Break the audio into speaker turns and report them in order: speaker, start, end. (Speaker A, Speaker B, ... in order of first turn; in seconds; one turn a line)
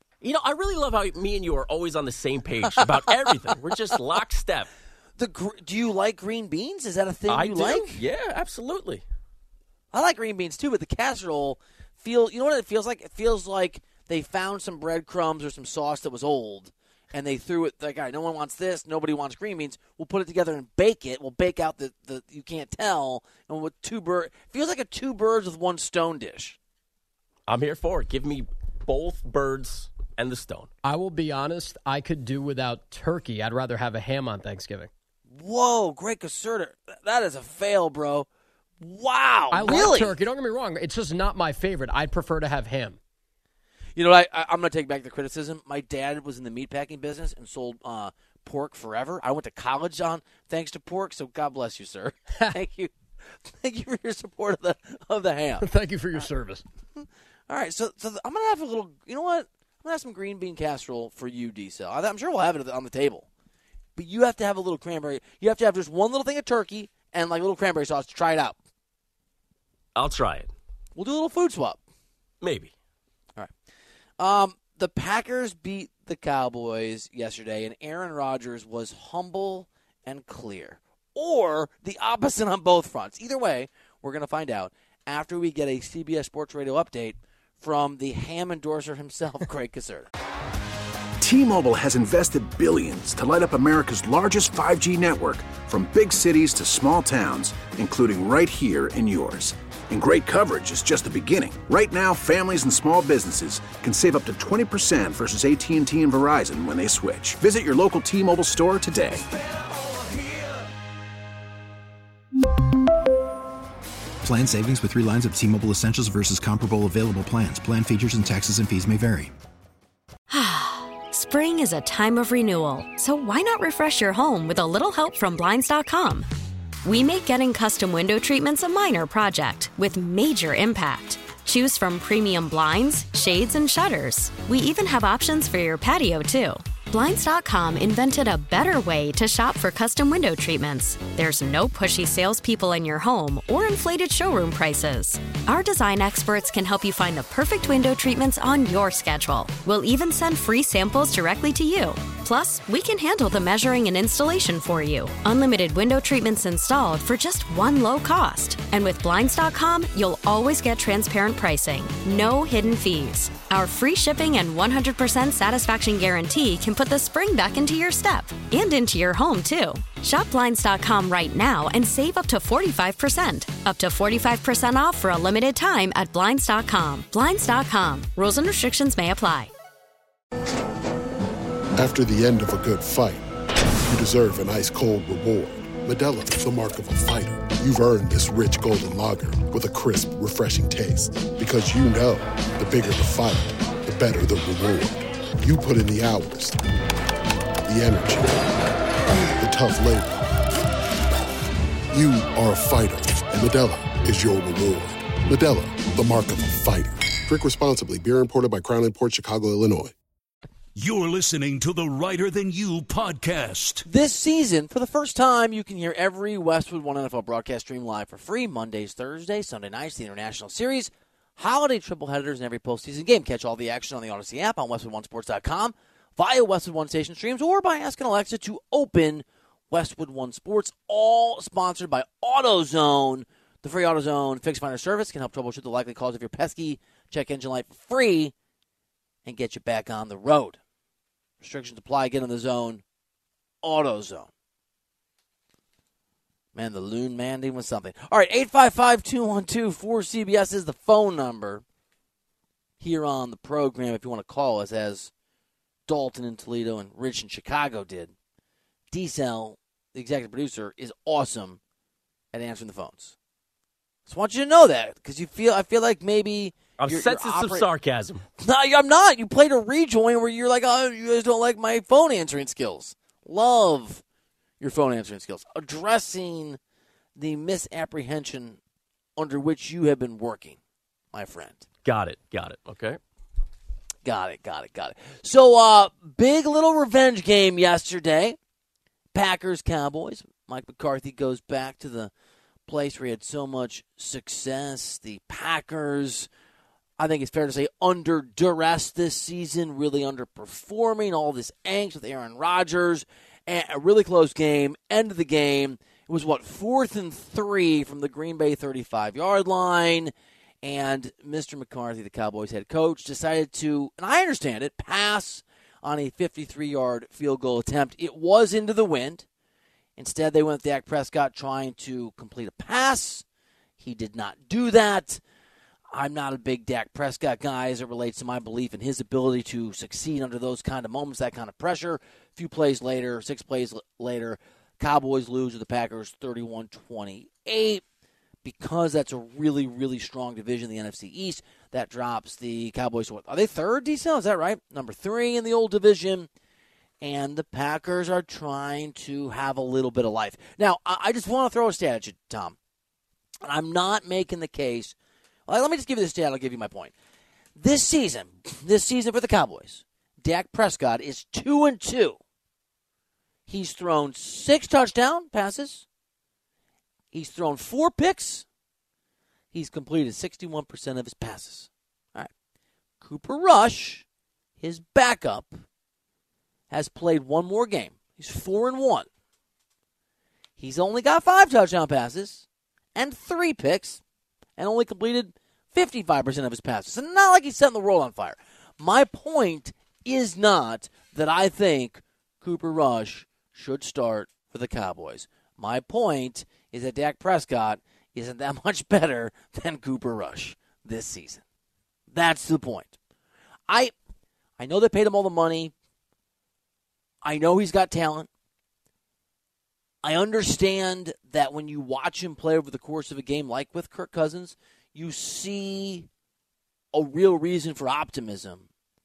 Speaker A: 0.2-4.7
Speaker B: 5.2-8.0
Speaker A: 7.3-9.0
Speaker B: 9.9-26.6
Speaker A: 27.5-30.7
Speaker C: 30.8-34.9
Speaker B: 35.3-38.3
Speaker B: 38.8-40.2
Speaker C: 39.5-43.0
Speaker B: 44.0-52.9
Speaker B: 53.5-55.7
Speaker C: 55.6-56.6
Speaker B: 57.0-63.3
Speaker B: 64.0-68.6
Speaker A: 70.0-70.5
Speaker B: 71.0-71.8
Speaker A: 72.4-72.7
Speaker B: 74.2-90.1
Speaker D: 91.2-109.3
Speaker E: 114.2-119.3
Speaker F: 120.3-126.3
Speaker F: 126.8-179.5
Speaker G: 181.8-183.2
Speaker G: 183.9-196.6
Speaker G: 197.7-198.5
Speaker G: 199.4-200.3
Speaker G: 201.9-209.9
Speaker H: 210.8-213.8
Speaker B: 213.9-238.3
Speaker B: 239.2-240.6
Speaker B: 241.4-242.8
Speaker B: 243.6-244.3
Speaker B: 246.6-251.6
Speaker B: 252.8-255.1
Speaker B: 255.9-258.1
Speaker B: 258.9-261.6
Speaker B: 262.3-263.1
Speaker B: 264.1-267.7
Speaker A: 266.8-268.3
Speaker B: 268.4-274.0
Speaker B: 274.6-276.6
Speaker B: 277.2-278.6
Speaker B: 279.2-280.6
Speaker B: 281.1-281.6
Speaker A: 281.9-283.0
Speaker B: 284.0-288.4
Speaker B: 289.1-292.1
Speaker B: 292.7-296.3
Speaker B: 297.0-319.3
Speaker B: 320.0-323.2
Speaker B: 323.8-325.2
Speaker B: 325.9-337.8
Speaker B: 338.4-346.3
Speaker B: 347.0-352.6
Speaker B: 353.4-354.9
Speaker B: 355.5-356.9
Speaker B: 357.6-362.2
Speaker B: 363.5-365.9
Speaker B: 367.1-368.4
Speaker B: 369.5-372.3
Speaker B: 373.0-374.1
Speaker B: 374.6-375.6
Speaker B: 376.7-379.1
Speaker B: 380.6-384.0
Speaker B: 384.6-401.4
Speaker B: 402.1-402.9
Speaker B: 403.7-403.9
Speaker B: 404.6-405.7
Speaker B: 407.2-408.3
Speaker B: 410.0-416.1
Speaker B: 416.9-418.7